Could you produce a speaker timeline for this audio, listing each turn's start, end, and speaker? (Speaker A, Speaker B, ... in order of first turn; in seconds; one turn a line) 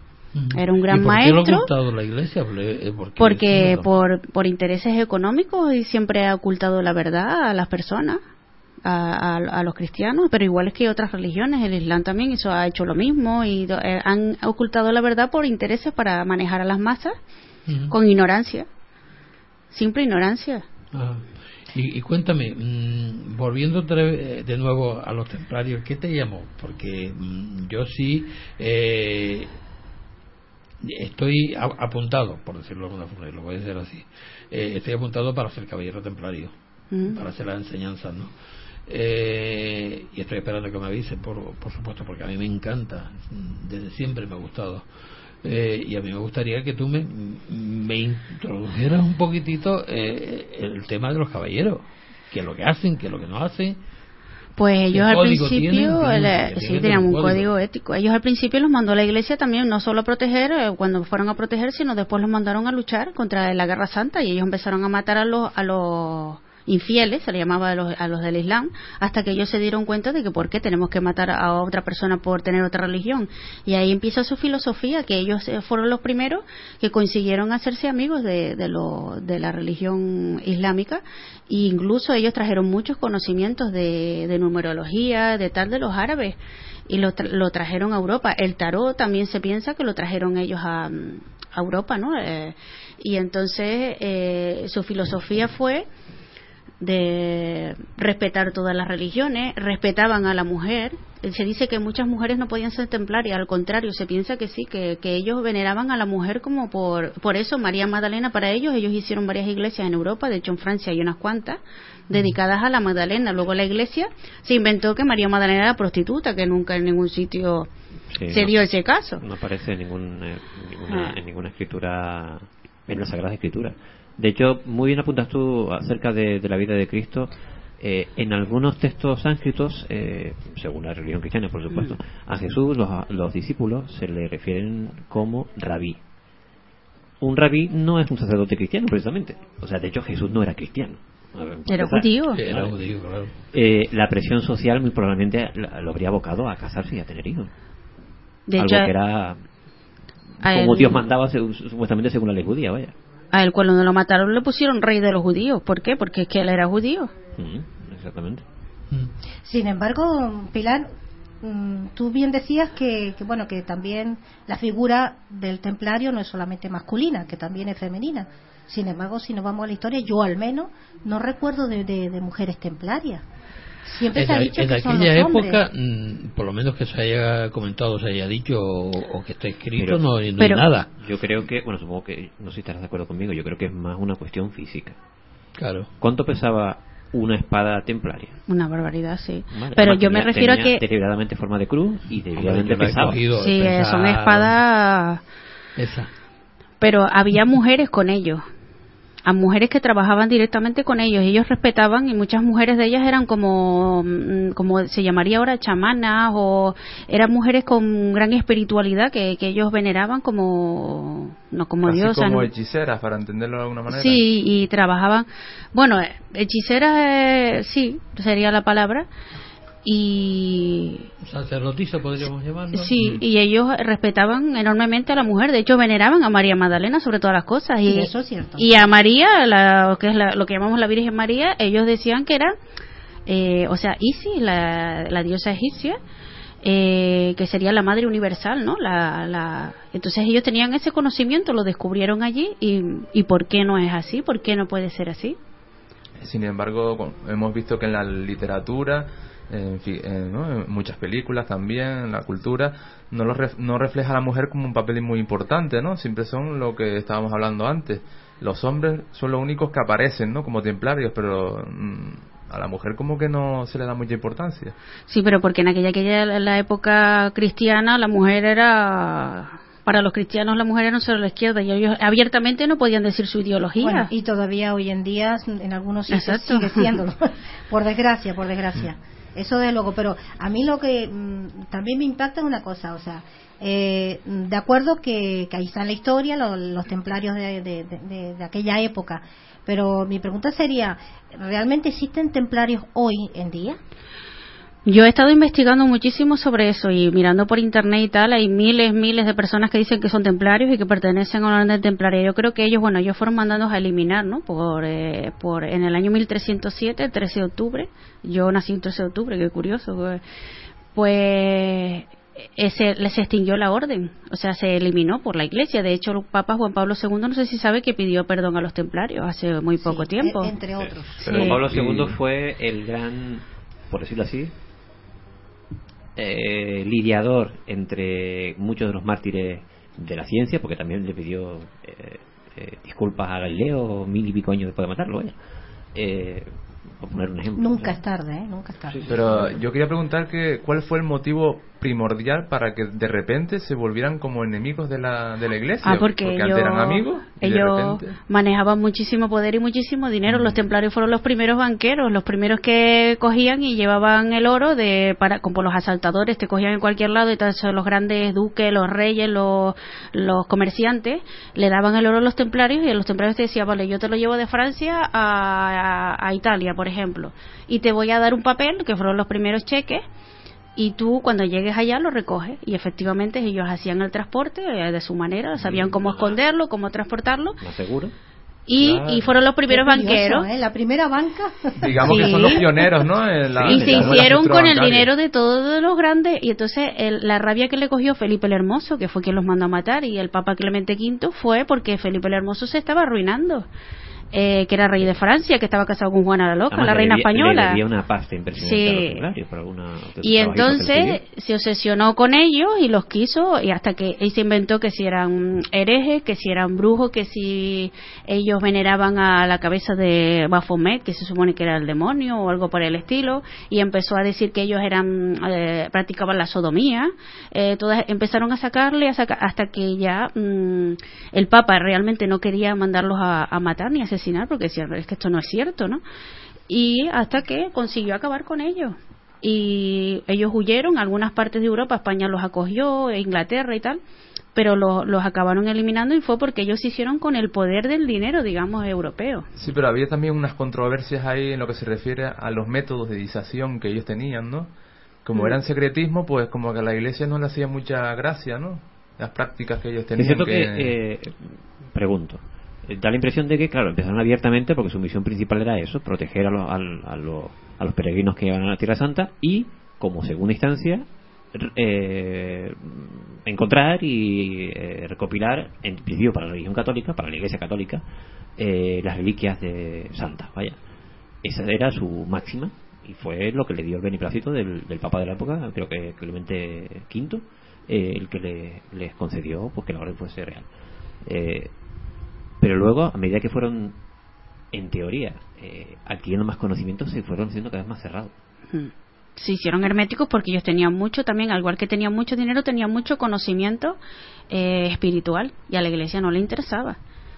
Speaker A: 0.3-3.9
Speaker B: 0.5-1.7
Speaker B: 3.2-8.2
Speaker B: 8.8-17.1
Speaker A: 17.7-17.9
Speaker B: 17.9-18.7
Speaker B: 19.7-20.6
Speaker A: 20.9-29.5
Speaker A: 30.8-36.5
Speaker B: 36.9-37.2
Speaker A: 37.1-38.3
Speaker A: 38.9-44.9
Speaker A: 45.4-53.8
Speaker B: 54.6-86.4
Speaker A: 54.9-57.5
Speaker B: 86.9-95.9
Speaker B: 96.8-117.7
Speaker C: 118.1-118.5
Speaker B: 118.3-119.2
Speaker C: 119.2-136.0
Speaker B: 120.9-121.2
Speaker C: 137.2-142.7
Speaker B: 141.7-142.4
Speaker A: 142.3-143.3
Speaker C: 143.5-147.5
Speaker B: 148.5-148.9
Speaker C: 148.6-149.4
Speaker B: 150.4-151.1
Speaker C: 150.4-152.9
Speaker B: 153.3-157.1
Speaker C: 157.3-158.4
Speaker D: 159.4-160.9
Speaker D: 161.4-173.2
Speaker D: 173.8-175.6
Speaker A: 174.1-180.9
Speaker C: 179.8-180.0
Speaker B: 180.4-180.6
Speaker C: 181.0-185.0
Speaker A: 185.6-185.9
Speaker C: 186.0-188.4
Speaker B: 188.5-190.8
Speaker C: 189.5-193.2
Speaker A: 192.3-194.6
Speaker B: 193.3-195.2
Speaker A: 195.8-196.1
Speaker B: 196.8-198.4
Speaker B: 199.2-212.5
Speaker E: 211.8-214.2
Speaker B: 213.9-219.1
Speaker B: 219.8-221.1
Speaker A: 221.2-222.9
Speaker B: 222.7-232.5
Speaker D: 227.8-228.7
Speaker B: 233.2-236.0
Speaker B: 236.6-245.4
Speaker E: 246.2-264.7
Speaker B: 265.1-274.1
Speaker D: 273.8-293.8
Speaker B: 276.1-277.0
Speaker B: 294.9-310.2
Speaker B: 310.9-320.5
Speaker D: 319.8-321.5
Speaker C: 320.8-324.5
Speaker E: 321.2-322.2
Speaker B: 321.2-321.6
Speaker C: 326.1-335.3
Speaker C: 335.9-338.0
Speaker D: 337.6-339.1
Speaker E: 339.1-348.1
Speaker B: 345.8-370.0
Speaker E: 350.3-350.6
Speaker B: 370.8-377.6
Speaker C: 375.6-376.4
Speaker C: 377.6-378.1
Speaker B: 378.7-380.5
Speaker C: 378.8-379.3
Speaker D: 379.7-382.8
Speaker E: 381.8-385.1
Speaker B: 382.0-382.7
Speaker C: 383.5-384.4
Speaker B: 383.6-393.7
Speaker B: 394.3-397.8
Speaker C: 396.7-401.2
Speaker B: 398.6-399.2
Speaker B: 400.2-426.0
Speaker B: 426.7-434.0
Speaker B: 434.5-439.5
Speaker E: 439.5-444.7
Speaker E: 445.2-450.9
Speaker C: 450.2-468.0
Speaker C: 468.6-470.8
Speaker C: 471.4-480.6
Speaker C: 481.2-481.7
Speaker C: 482.6-483.9
Speaker C: 484.7-488.3
Speaker B: 488.7-494.0
Speaker B: 494.5-497.0